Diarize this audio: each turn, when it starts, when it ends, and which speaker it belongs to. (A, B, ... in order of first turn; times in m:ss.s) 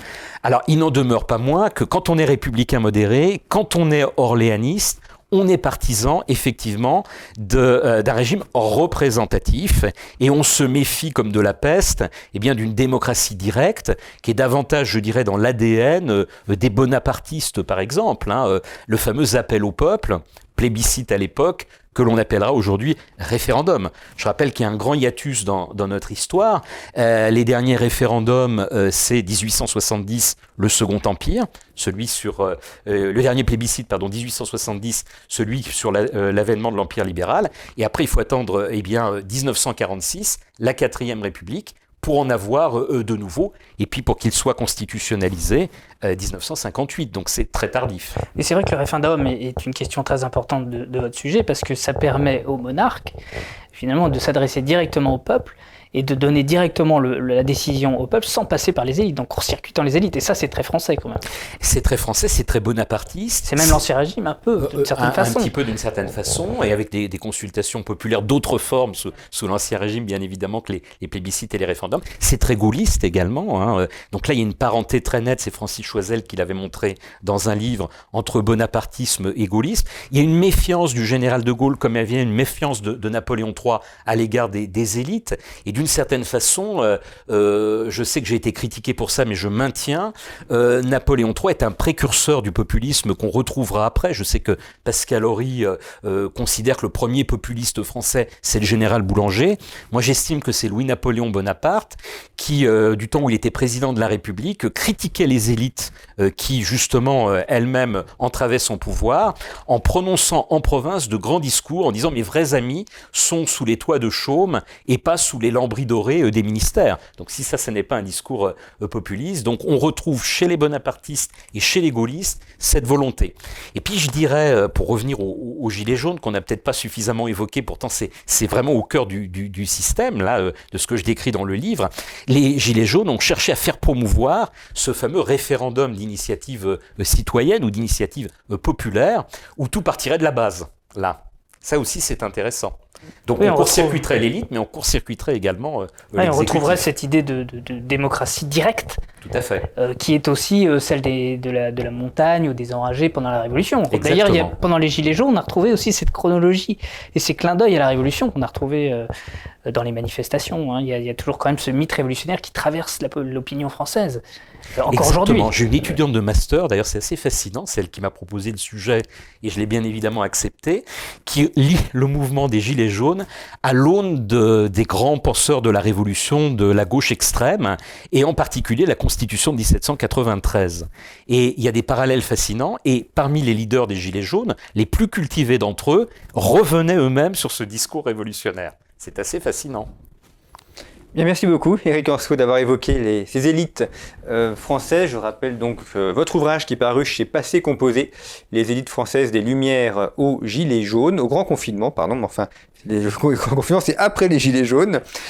0:00.4-0:48.2 A
0:48.4-0:53.2 B
0:53.7-1:01.2 B
1:01.6-1:03.8 A
1:03.5-1:05.5 B
1:04.6-2:26.8 A
2:23.4-2:24.0 B
2:26.2-2:29.0 B
2:29.2-2:29.7 A
2:29.8-2:39.1 B
2:33.9-2:34.5 A
2:39.7-2:44.2 B
2:44.8-2:45.5 B
2:44.9-3:09.9 A
3:11.1-3:25.0 C